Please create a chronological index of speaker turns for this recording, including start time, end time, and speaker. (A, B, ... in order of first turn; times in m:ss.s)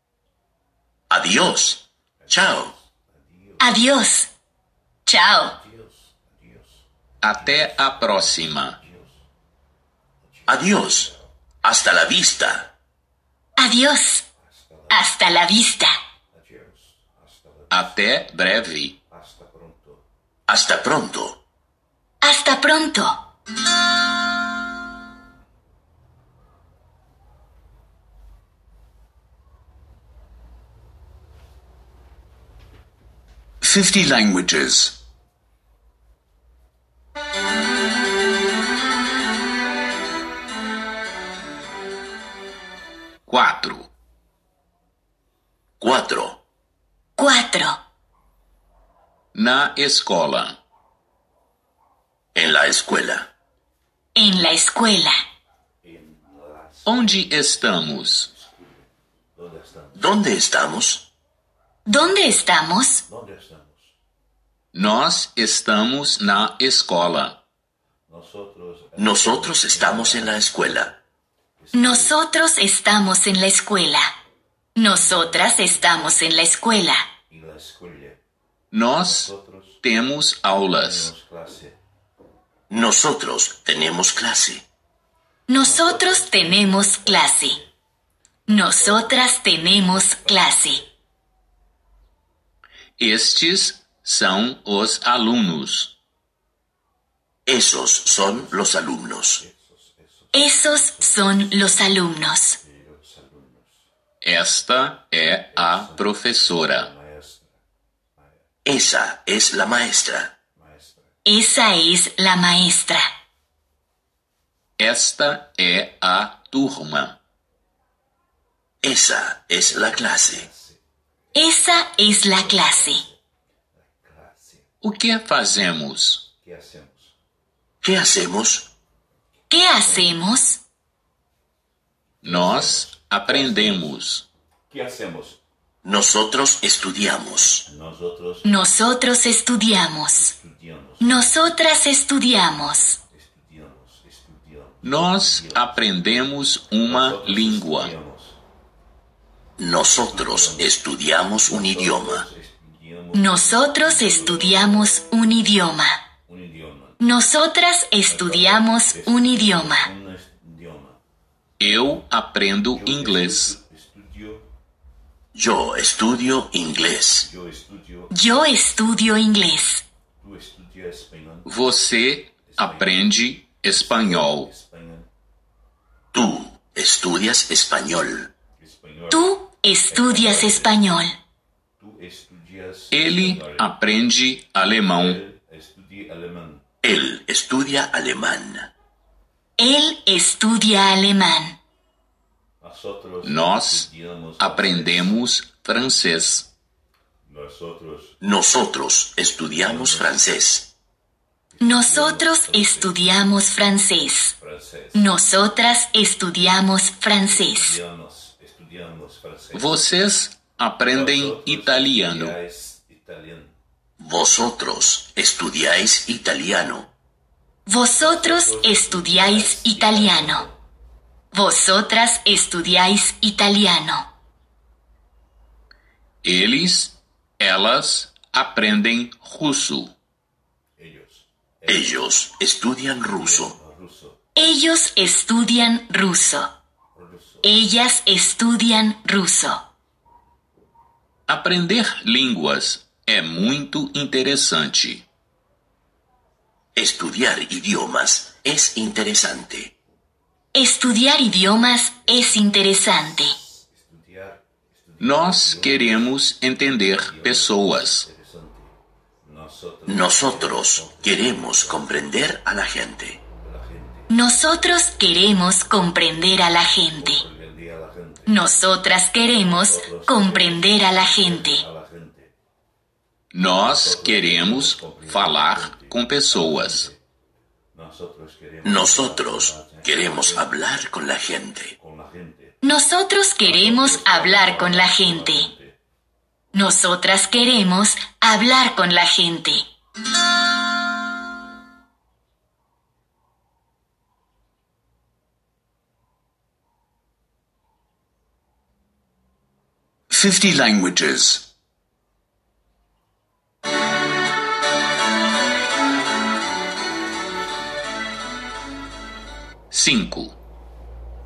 0:01.1-0:02.7 A
0:02.2-0:03.7 B
0:03.6-0:04.3 C
0:05.0-0:05.6 C
0:05.4-0:06.9 B
0:07.2-0:08.8 D
0:07.4-0:09.2 B
0:10.2-0:11.3 B
0:10.5-0:11.1 A
0:11.6-0:12.6 A
0:13.6-0:14.2 C
0:14.4-0:15.1 B
0:14.9-0:15.9 C
0:16.3-0:18.3 B
0:17.7-0:19.0 D
0:19.1-0:20.0 B
0:20.5-0:21.4 A
0:22.2-0:23.2 C
0:33.6-0:35.0 E
0:43.2-0:43.9 D
0:45.8-0:46.4 A
0:47.2-0:47.8 C
0:49.3-0:50.6 D
0:52.3-0:53.3 A
0:54.1-0:55.1 C
0:55.8-1:00.3 B
0:56.8-0:58.3 D
1:00.0-1:01.1 A
1:01.8-1:03.0 C
1:03.0-1:03.9 B
1:04.7-1:07.4 D
1:08.1-1:11.0 B
1:09.0-1:10.9 A
1:11.6-1:12.1 B
1:11.7-1:14.1 C
1:14.8-1:17.0 C
1:14.8-1:16.1 B
1:17.3-1:18.2 B
1:18.7-1:19.3 D
1:19.0-1:19.8 B
1:19.8-1:21.1 D
1:20.7-1:21.8 B
1:22.7-1:24.6 A
1:25.5-1:27.6 C
1:25.6-1:27.7 B
1:28.5-1:30.8 C
1:28.5-1:30.9 B
1:33.0-1:36.0 D
1:37.5-1:39.4 A
1:38.3-1:43.8 B
1:40.3-1:42.6 C
1:44.2-1:46.9 D
1:45.5-1:47.6 B
1:48.6-1:50.3 A
1:50.6-1:51.1 B
1:51.2-1:53.0 C
1:54.8-1:57.2 D
1:58.8-2:00.4 A
1:59.6-2:00.8 B
2:01.3-2:03.0 C
2:01.3-2:03.2 B
2:03.8-2:04.7 B
2:04.8-2:06.3 D
2:06.4-2:07.1 B
2:07.8-2:08.7 A
2:09.5-2:10.2 B
2:09.5-2:10.6 C
2:12.2-2:14.0 B
2:12.2-2:14.3 D
2:14.7-2:15.4 B
2:15.8-2:17.6 A
2:17.6-2:18.5 B
2:18.4-2:20.3 C
2:20.1-2:21.3 B
2:21.0-2:23.0 C
2:23.1-2:25.8 B
2:24.8-2:27.9 D
2:26.8-2:28.4 B
2:29.6-2:32.2 A
2:29.8-2:34.9 B
2:33.1-2:36.0 C
2:36.3-2:37.0 B
2:37.0-2:39.9 C
2:38.1-2:41.0 B
2:41.6-2:43.6 D
2:41.6-2:41.9 B
2:42.6-2:44.5 B
2:45.3-2:47.3 A
2:47.2-2:48.4 B
2:48.1-2:49.8 C
2:50.2-2:51.5 B
2:51.4-2:54.5 D
2:52.5-2:53.1 B
2:53.8-2:55.1 B
2:56.1-2:58.3 A
2:58.6-2:59.3 B
2:59.1-3:01.2 C
2:59.9-3:00.8 B
3:01.8-3:03.7 B
3:02.9-3:05.2 D
3:04.9-3:06.6 B
3:06.8-3:08.7 A
3:09.6-3:11.6 C
3:12.6-3:15.2 B
3:13.2-3:16.5 D
3:17.2-3:18.2 B
3:18.2-3:20.7 A
3:19.4-3:20.2 B
3:21.5-3:23.1 B
3:21.6-3:24.3 C
3:24.4-3:25.1 B
3:24.9-3:27.8 C
3:27.3-3:29.7 B
3:29.5-3:32.4 D
3:30.8-3:33.6 B
3:34.0-3:36.9 A
3:37.6-3:40.5 C
3:38.0-3:40.6 B
3:41.3-3:44.1 C
3:46.2-3:49.9 D
3:50.8-3:52.1 B
3:51.7-3:53.5 A
3:53.0-3:54.2 B
3:54.3-3:56.5 C
3:56.9-3:57.5 B
3:57.4-3:59.6 C
4:01.3-4:05.0 D
4:06.8-4:09.7 A
4:10.5-4:13.4 C
4:13.2-4:16.1 B
4:15.0-4:18.1 D
4:16.9-4:22.3 B
4:19.9-4:23.2 A
4:23.3-4:24.2 B
4:24.1-4:27.2 C
4:27.0-4:28.4 B
4:28.3-4:31.6 C
4:29.3-4:32.3 B
4:33.3-4:36.9 D
4:33.6-4:37.0 B
4:37.7-4:40.5 B
4:38.6-4:41.7 A
4:41.8-4:42.6 B
4:42.6-4:45.5 C
4:43.4-4:45.8 B
4:46.5-4:49.6 C
5:00.1-5:01.5 E
5:09.7-5:10.4 D